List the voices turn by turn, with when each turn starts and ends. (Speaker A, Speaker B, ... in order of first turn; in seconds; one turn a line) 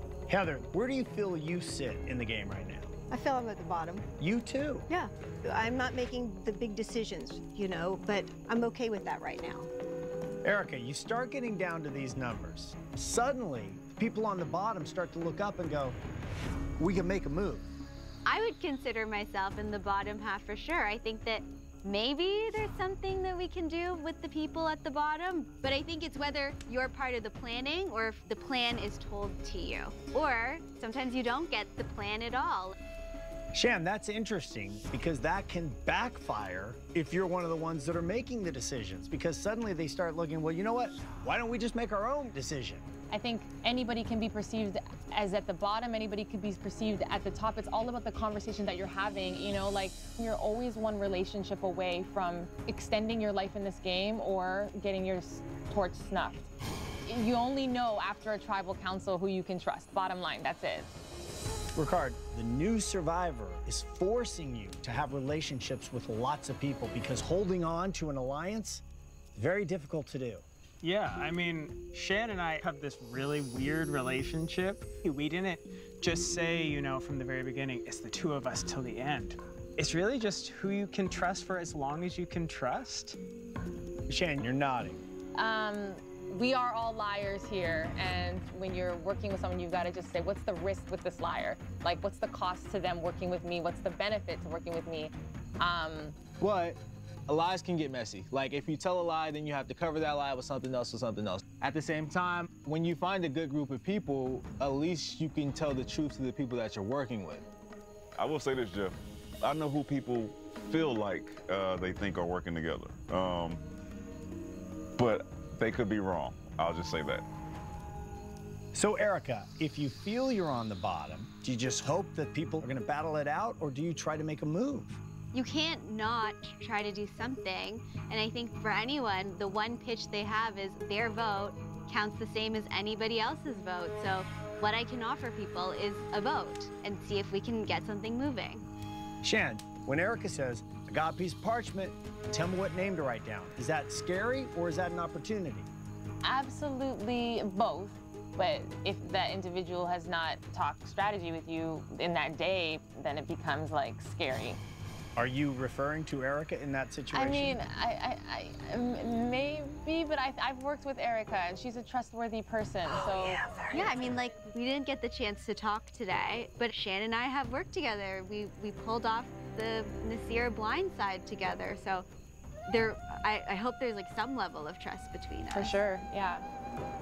Speaker A: 0.3-2.9
Speaker B: 3.1-4.1
Speaker A: 4.2-4.9
Speaker B: 4.9-9.7
Speaker A: 10.4-16.0
Speaker A: 16.8-17.7
Speaker C: 18.3-32.8
Speaker A: 33.5-42.9
Speaker D: 43.1-56.5
Speaker D: 57.1-60.9
Speaker A: 61.8-68.8
Speaker A: 69.3-70.5
Speaker E: 70.8-83.2
Speaker A: 84.1-85.0
Speaker D: 85.4-96.2
Speaker F: 96.4-107.5
Speaker G: 108.2-113.6
Speaker G: 115.0-117.3
Speaker A: 118.7-125.0
Speaker C: 125.3-138.7
Speaker A: 139.2-145.7
Speaker D: 146.2-154.6
Speaker A: 155.2-157.6
Speaker D: 157.1-163.4
Speaker A: 163.4-163.8
Speaker C: 163.7-172.1
Speaker C: 172.7-175.8
Speaker D: 175.5-176.5